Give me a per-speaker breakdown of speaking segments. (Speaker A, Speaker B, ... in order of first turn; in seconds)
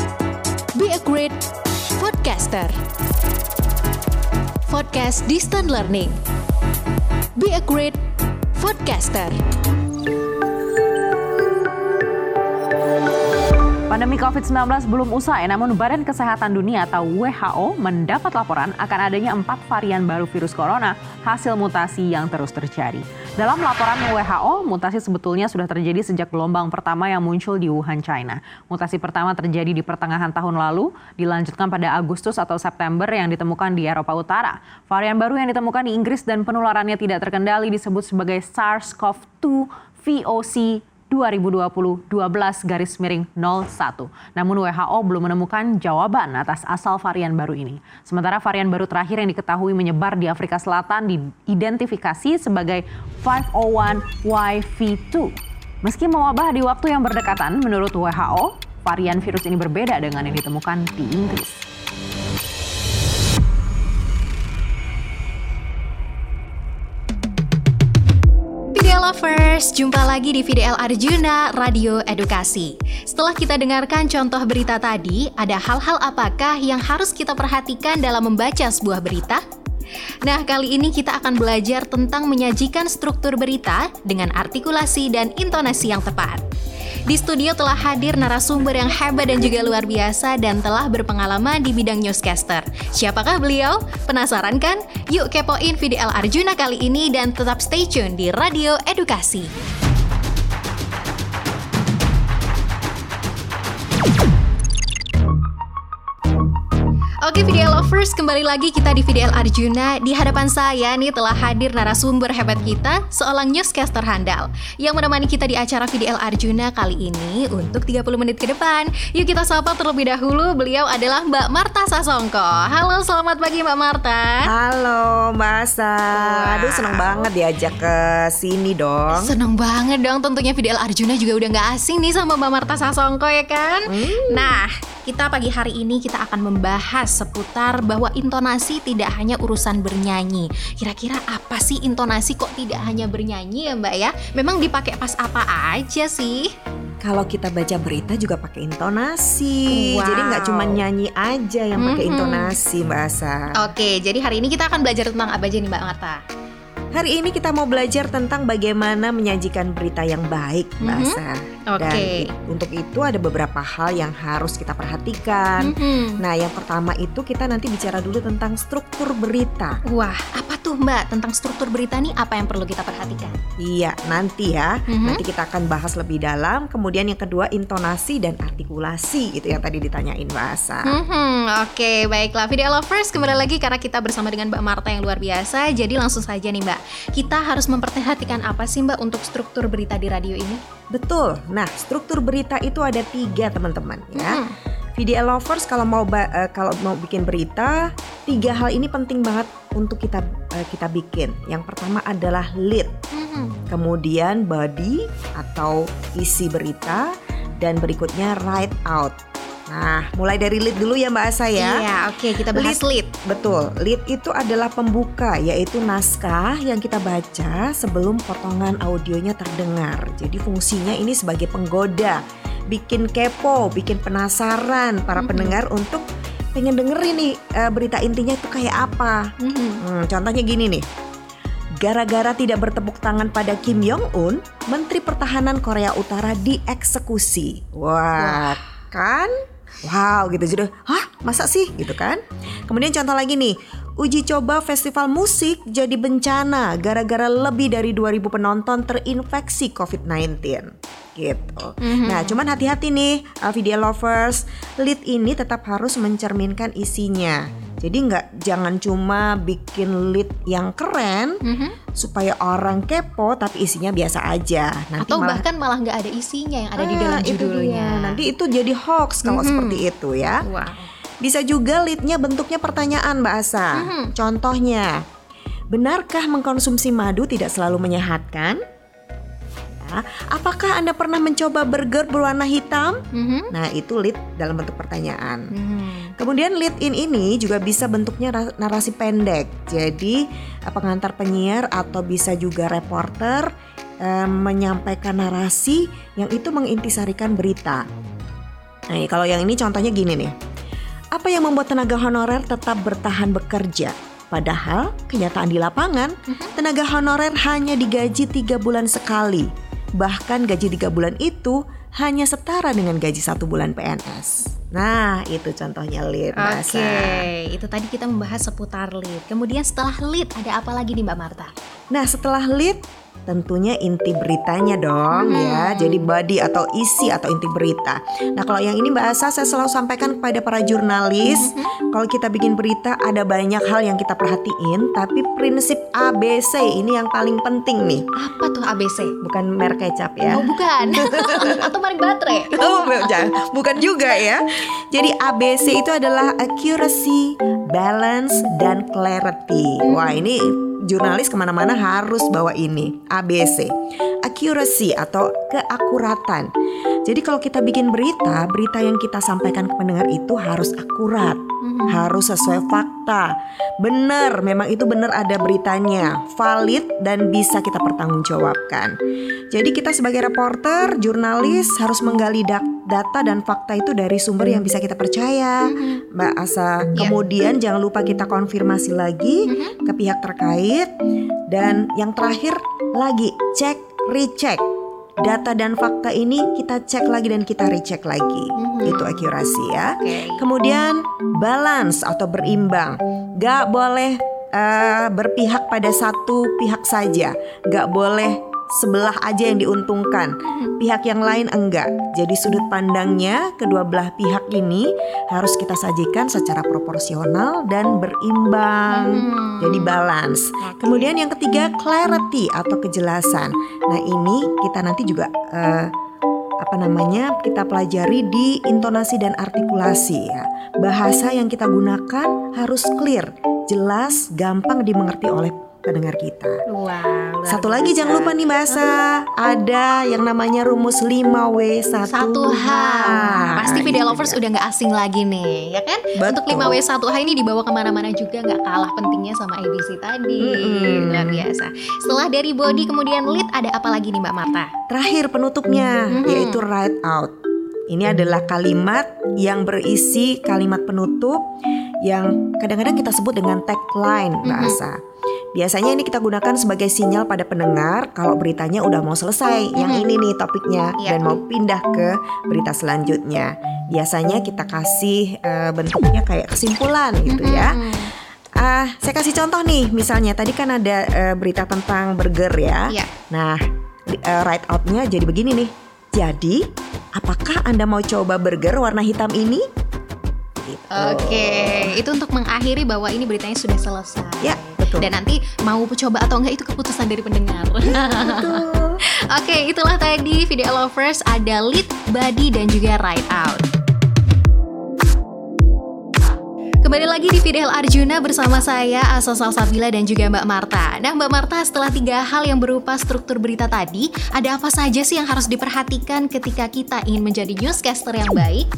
Speaker A: 0.8-1.4, 2.0-2.8, 4.7-6.2, 7.4-8.0, 8.6-9.4, 68.7-79.4, 80.2-86.4, 87.1-99.5, 107.2-124.5, 126.1-127.3, 129.1-146.5, 149.7-150.8, 151.8-152.6, 153.6-156.2, 160.8-162.3, 165.6-166.2, 169.8-173.4, 174.9-175.2, 180.9-190.6, 194.2-194.5, 203.1-203.6, 211.6-213.1, 225.2-225.6, 229.4-229.8, 238.2-238.6, 251.8-252.4, 261.4-261.8, 265.0-268.2, 269.2-269.8, 270.5-270.9, 273.8-274.1, 283.1-283.5, 285.5-286.1, 316.4-321.5, 325.1-326.1, 331.3-331.7, 338.2-339.2, 340.3-343.2, 349.8-350.2, 361.6-362.1, 375.7-376.0, 379.5-379.8, 388.6-389.3, 389.9-390.4, 408.9-410.0, 410.6-411.1, 426.7-428.7, 432.1-444.7, 446.1-446.6, 454.4-454.8, 459.8-460.1, 461.0-461.4, 467.3-468.1, 480.9-488.6, 489.3-493.7, 496.8-508.7
Speaker B: 13.9-61.6
Speaker C: 124.5-129.3, 133.9-134.6, 147.0-153.7, 156.9-169.8, 173.6-181.0, 190.9-194.4, 195.0-202.9, 203.7-209.2, 209.7-211.8, 212.5-226.0, 226.6-230.8, 231.8-239.3, 239.8-261.4, 262.0-265.4, 266.8-270.4, 271.2-275.0, 275.7-278.6, 279.7-283.0, 283.5-285.5, 286.2-297.9, 298.9-300.3, 301.1-317.3, 321.9-338.1, 339.2-341.7, 342.5-353.7, 354.2-356.5, 357.1-368.9, 369.5-380.9, 381.5-384.6, 385.2-415.9, 416.6-426.6, 427.5-434.4, 436.2-436.8, 440.4-441.4, 444.9-447.3, 447.9-451.5, 452.0-455.0, 455.5-467.8, 468.6-479.6, 480.6-482.0, 484.4-485.1, 487.9-489.0